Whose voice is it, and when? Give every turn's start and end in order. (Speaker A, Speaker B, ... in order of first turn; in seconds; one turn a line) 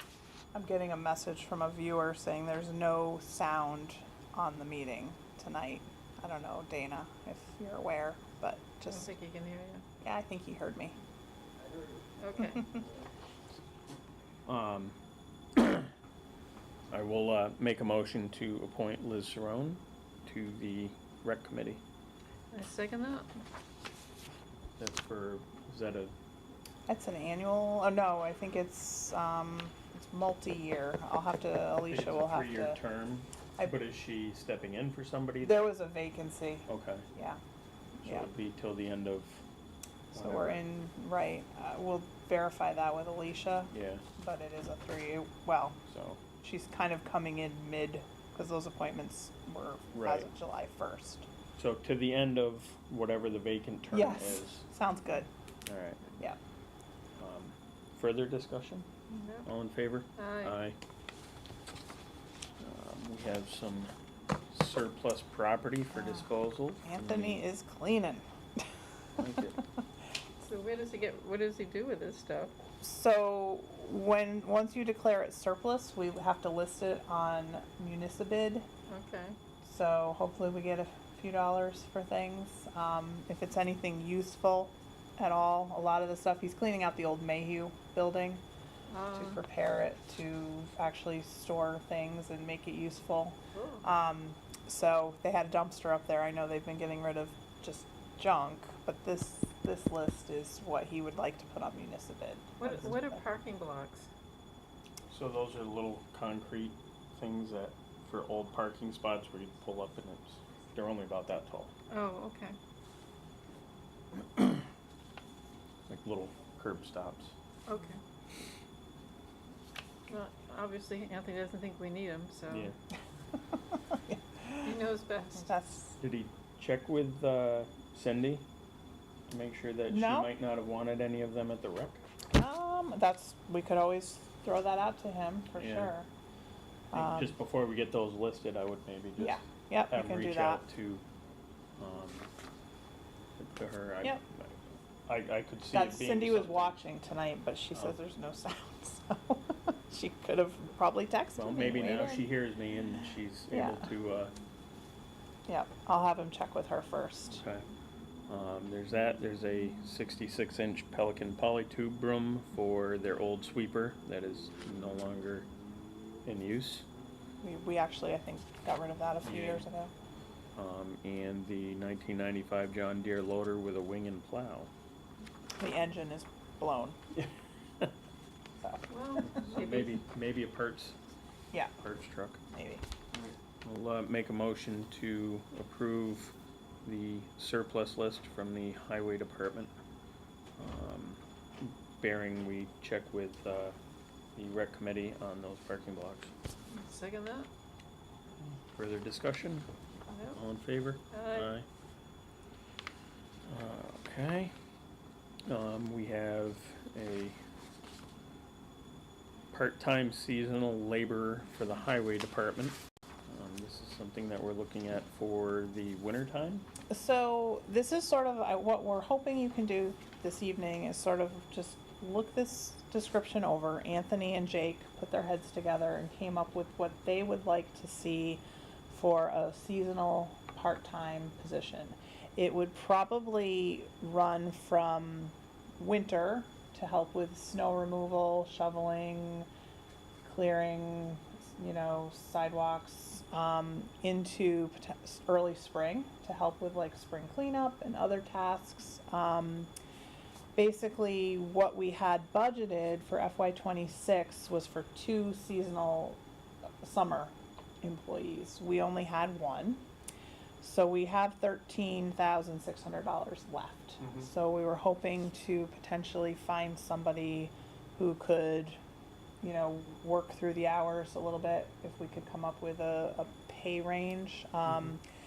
Speaker A: 0.5-9.1
Speaker B: 8.9-9.8
Speaker A: 10.0-11.0
Speaker B: 12.2-12.6
Speaker C: 14.5-15.0
Speaker C: 15.6-15.9
Speaker C: 16.9-21.8
Speaker B: 22.5-23.3
Speaker C: 24.8-26.1
Speaker A: 26.9-32.8
Speaker C: 31.8-35.7
Speaker A: 35.4-37.4
Speaker C: 36.7-37.1
Speaker C: 38.0-39.4
Speaker A: 40.1-45.8
Speaker C: 40.1-40.6
Speaker C: 43.7-44.0
Speaker C: 45.9-46.2
Speaker A: 46.4-51.3
Speaker C: 49.9-50.3
Speaker C: 51.6-54.6
Speaker A: 53.9-55.3
Speaker C: 55.7-56.0
Speaker C: 57.2-58.9
Speaker B: 59.1-59.5
Speaker C: 59.5-60.8
Speaker B: 60.2-60.6
Speaker C: 62.6-63.9
Speaker C: 64.5-67.5
Speaker A: 66.0-66.3
Speaker A: 66.8-68.6
Speaker C: 69.2-69.6
Speaker B: 70.4-72.5
Speaker A: 72.8-78.7
Speaker B: 78.9-79.4
Speaker A: 79.6-88.4
Speaker B: 88.9-89.4
Speaker A: 89.1-103.1
Speaker B: 93.5-93.8
Speaker B: 102.6-104.1
Speaker C: 105.1-111.7
Speaker B: 111.9-112.6
Speaker C: 115.9-117.3
Speaker B: 117.7-118.0
Speaker B: 120.1-122.7
Speaker A: 123.7-124.8
Speaker B: 124.6-125.5
Speaker A: 125.4-126.0
Speaker C: 126.0-128.4
Speaker C: 129.3-132.0
Speaker A: 129.9-130.3
Speaker A: 132.3-136.1
Speaker C: 135.6-135.9
Speaker A: 136.9-137.3
Speaker C: 136.9-141.0
Speaker A: 139.2-140.6
Speaker C: 141.8-142.3
Speaker C: 143.4-146.8
Speaker A: 145.7-152.3
Speaker C: 151.4-154.3
Speaker A: 153.5-153.9
Speaker A: 155.5-157.4
Speaker C: 157.3-157.7
Speaker C: 158.3-165.5
Speaker C: 166.2-166.9
Speaker A: 167.4-169.9
Speaker C: 169.2-169.7
Speaker C: 170.6-174.7
Speaker A: 175.6-177.0
Speaker B: 178.9-180.0
Speaker C: 179.3-181.0
Speaker C: 181.8-182.4
Speaker A: 182.5-182.8
Speaker C: 183.1-189.7
Speaker C: 190.6-193.8
Speaker C: 194.4-196.3
Speaker B: 196.7-197.5
Speaker C: 198.7-199.7
Speaker B: 200.1-200.4
Speaker C: 200.3-201.7
Speaker B: 201.1-201.5
Speaker C: 203.5-204.5
Speaker C: 205.5-207.4
Speaker C: 209.5-216.7
Speaker A: 216.9-239.5
Speaker A: 240.2-249.7
Speaker A: 250.6-256.2
Speaker A: 256.8-259.8
Speaker A: 260.6-268.8
Speaker C: 264.0-264.3
Speaker A: 269.4-275.0